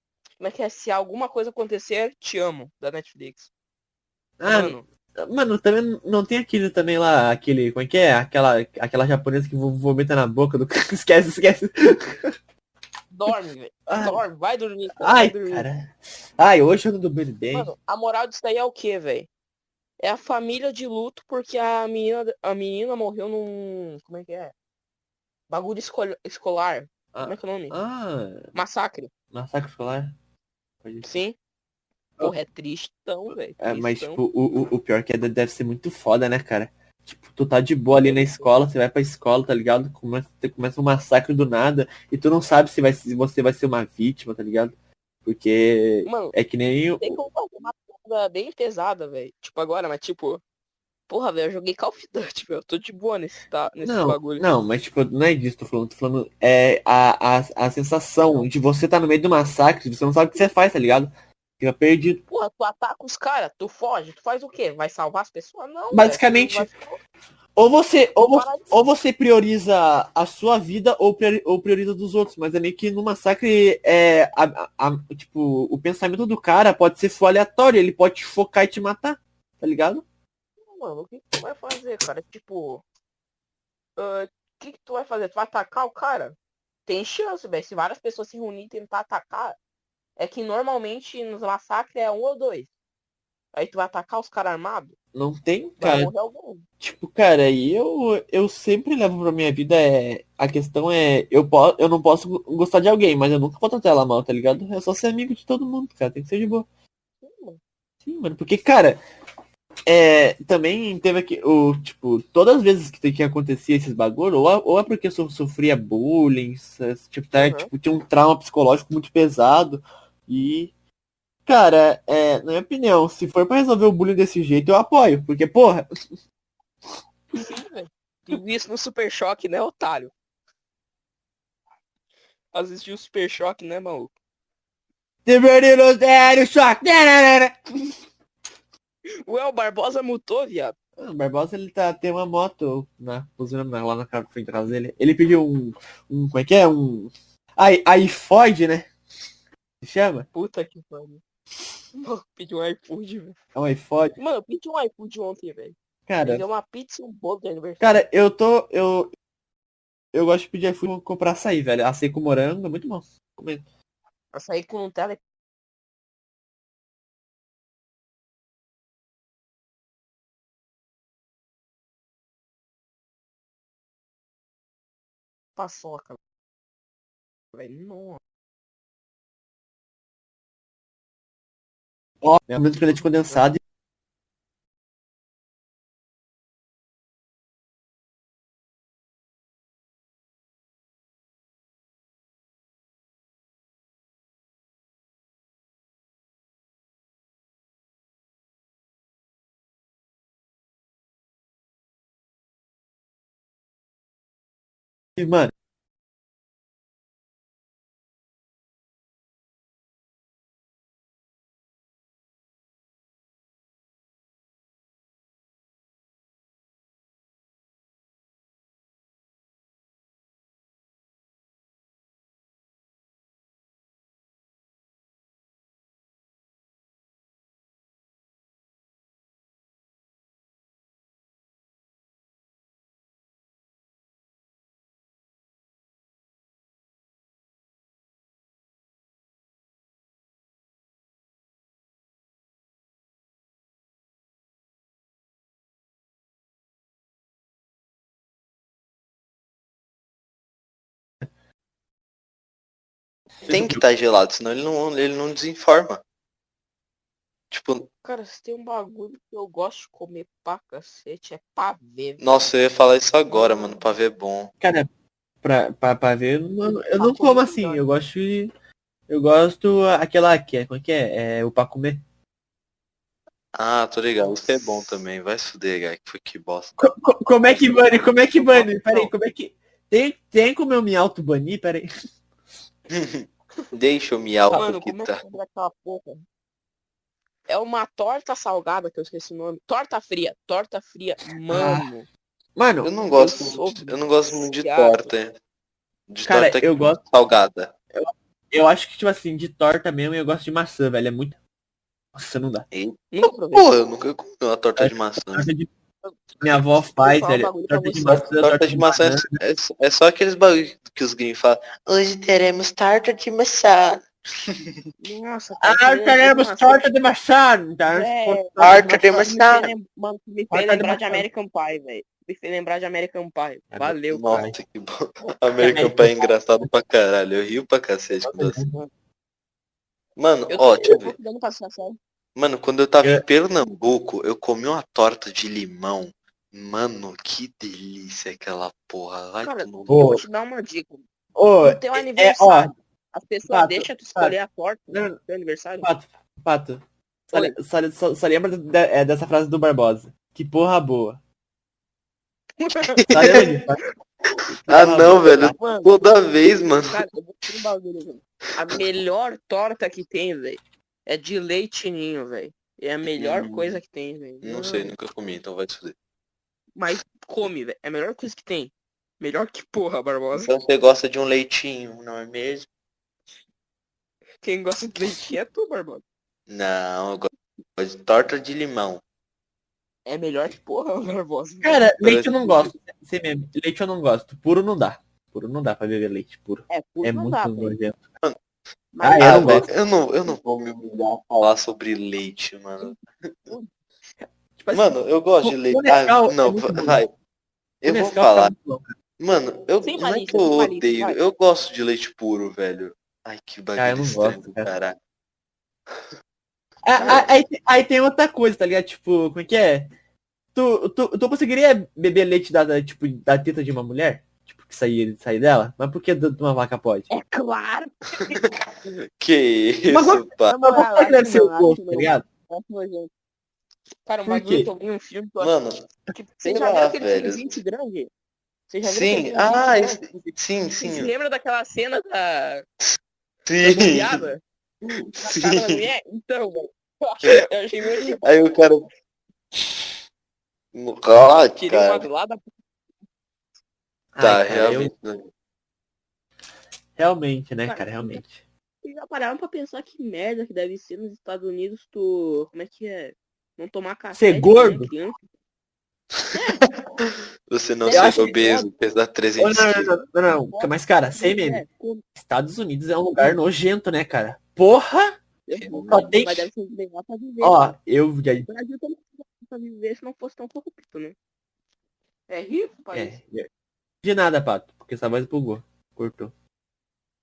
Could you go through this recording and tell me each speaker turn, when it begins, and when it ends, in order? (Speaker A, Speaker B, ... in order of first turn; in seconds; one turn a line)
Speaker A: 0.4-3.5
Speaker B: 4.4-12.3
Speaker A: 4.5-4.8
Speaker A: 13.1-15.7
Speaker B: 13.9-14.2
Speaker B: 15.0-17.7
Speaker A: 17.5-19.3
Speaker A: 20.0-24.5
Speaker A: 25.5-27.8
Speaker B: 27.1-28.5
Speaker A: 28.5-29.1
Speaker B: 29.3-30.1
Speaker B: 30.8-31.1
Speaker A: 31.0-31.4
Speaker A: 32.2-34.2
Speaker B: 33.6-44.8
Speaker A: 38.0-38.5
Speaker B: 45.2-47.2
Speaker A: 46.0-46.3
Speaker A: 47.0-50.4
Speaker A: 51.1-54.4
Speaker B: 53.8-62.2
Speaker A: 58.2-58.5
Speaker A: 62.3-67.0
Speaker B: 65.9-66.7
Speaker B: 67.5-80.0
Speaker A: 68.2-68.7
Speaker A: 80.6-82.8
Speaker A: 84.0-86.3
Speaker A: 86.9-89.6
Speaker A: 90.2-92.7
Speaker A: 93.5-94.9
Speaker B: 95.1-96.1
Speaker A: 95.8-96.6
Speaker B: 96.8-106.7
Speaker A: 107.2-107.6
Speaker B: 108.0-109.0
Speaker B: 109.9-120.7
Speaker A: 117.3-117.7
Speaker B: 121.5-125.9
Speaker A: 127.3-130.1
Speaker A: 132.5-134.1
Speaker B: 135.2-137.6
Speaker A: 139.2-140.8
Speaker B: 141.0-148.9
Speaker B: 149.8-150.3
Speaker A: 150.3-151.2
Speaker A: 152.0-153.3
Speaker B: 153.5-154.2
Speaker A: 154.2-158.1
Speaker B: 156.1-156.4
Speaker B: 157.8-159.1
Speaker B: 160.1-163.6
Speaker A: 164.3-165.2
Speaker A: 175.6-176.2
Speaker A: 177.5-178.2
Speaker B: 182.2-183.6
Speaker B: 205.2-205.5
Speaker B: 253.4-253.8
Speaker C: 253.5-256.0
Speaker C: 257.5-257.9
Speaker A: 258.0-262.2
Speaker C: 262.2-264.5
Speaker A: 263.3-263.9
Speaker B: 264.6-264.9
Speaker B: 265.4-268.5
Speaker A: 267.0-267.8
Speaker B: 269.1-272.0
Speaker C: 273.5-276.8
Speaker A: 274.2-274.9
Speaker B: 276.8-281.9
Speaker A: 277.4-279.1
Speaker C: 282.9-285.2
Speaker A: 284.5-286.2
Speaker A: 287.5-292.1
Speaker B: 291.5-291.9
Speaker B: 292.6-292.9
Speaker C: 292.8-295.3
Speaker A: 293.1-295.1
Speaker C: 296.1-297.7
Speaker B: 296.2-297.0
Speaker B: 297.9-301.4
Speaker B: 302.1-302.7
Speaker C: 302.7-305.5
Speaker A: 303.1-303.7
Speaker B: 304.8-305.7
Speaker B: 306.4-309.4
Speaker A: 307.0-308.2
Speaker C: 308.2-314.7
Speaker A: 315.0-316.8
Speaker B: 315.6-318.9
Speaker A: 317.9-324.4
Speaker C: 318.6-319.7
Speaker B: 320.5-321.2
Speaker B: 323.7-324.5
Speaker C: 324.1-328.6
Speaker B: 325.6-326.1
Speaker B: 328.2-328.8
Speaker C: 330.2-331.1
Speaker A: 330.5-332.0
Speaker C: 332.4-340.2
Speaker A: 339.4-341.0
Speaker B: 339.9-340.2
Speaker B: 341.4-342.7
Speaker A: 341.6-345.9
Speaker B: 343.5-344.4
Speaker B: 344.9-345.2
Speaker B: 345.8-351.2
Speaker A: 352.6-353.8
Speaker C: 353.0-353.4
Speaker B: 353.1-353.8
Speaker B: 354.6-355.4
Speaker C: 354.7-357.0
Speaker A: 355.0-356.1
Speaker A: 356.9-364.9
Speaker C: 363.1-363.8
Speaker C: 364.4-365.9
Speaker A: 366.8-370.5
Speaker C: 370.3-372.7
Speaker A: 374.4-376.0
Speaker C: 376.5-379.0
Speaker A: 380.1-381.8
Speaker B: 381.6-388.0
Speaker C: 382.0-382.7
Speaker A: 386.7-387.8
Speaker A: 388.9-389.7
Speaker B: 389.0-389.7
Speaker C: 389.2-393.5
Speaker A: 392.8-393.7
Speaker B: 394.6-397.0
Speaker C: 394.7-397.1
Speaker C: 397.8-398.5
Speaker B: 397.9-398.9
Speaker C: 399.2-405.0
Speaker A: 399.8-401.2
Speaker B: 403.8-404.7
Speaker B: 406.8-409.9
Speaker A: 407.0-407.2
Speaker C: 407.0-407.3
Speaker B: 410.5-417.1
Speaker A: 417.1-418.4
Speaker C: 419.2-420.5
Speaker B: 419.9-422.2
Speaker A: 420.5-423.1
Speaker A: 424.1-425.5
Speaker B: 424.3-424.7
Speaker C: 425.4-425.8
Speaker A: 426.1-428.1
Speaker C: 426.4-427.5
Speaker A: 428.7-430.1
Speaker C: 428.8-431.1
Speaker A: 430.8-432.6
Speaker C: 433.5-434.2
Speaker A: 433.6-434.4
Speaker C: 434.8-435.8
Speaker A: 435.2-438.3
Speaker C: 438.2-438.8
Speaker C: 439.5-439.9
Speaker C: 440.7-442.1
Speaker A: 441.6-442.4
Speaker B: 444.1-444.9
Speaker C: 444.2-445.3
Speaker B: 447.0-448.4
Speaker A: 447.6-448.2
Speaker A: 448.8-455.1
Speaker B: 454.1-454.9
Speaker A: 456.3-456.7
Speaker C: 457.0-459.9
Speaker A: 457.8-458.7
Speaker B: 457.9-458.3
Speaker B: 459.4-461.6
Speaker A: 460.5-462.0
Speaker B: 462.1-465.1
Speaker A: 465.5-467.7
Speaker C: 465.5-466.2
Speaker B: 465.8-466.5
Speaker B: 467.4-468.5
Speaker A: 468.5-471.1
Speaker A: 472.3-473.2
Speaker B: 472.9-473.5
Speaker B: 474.0-476.3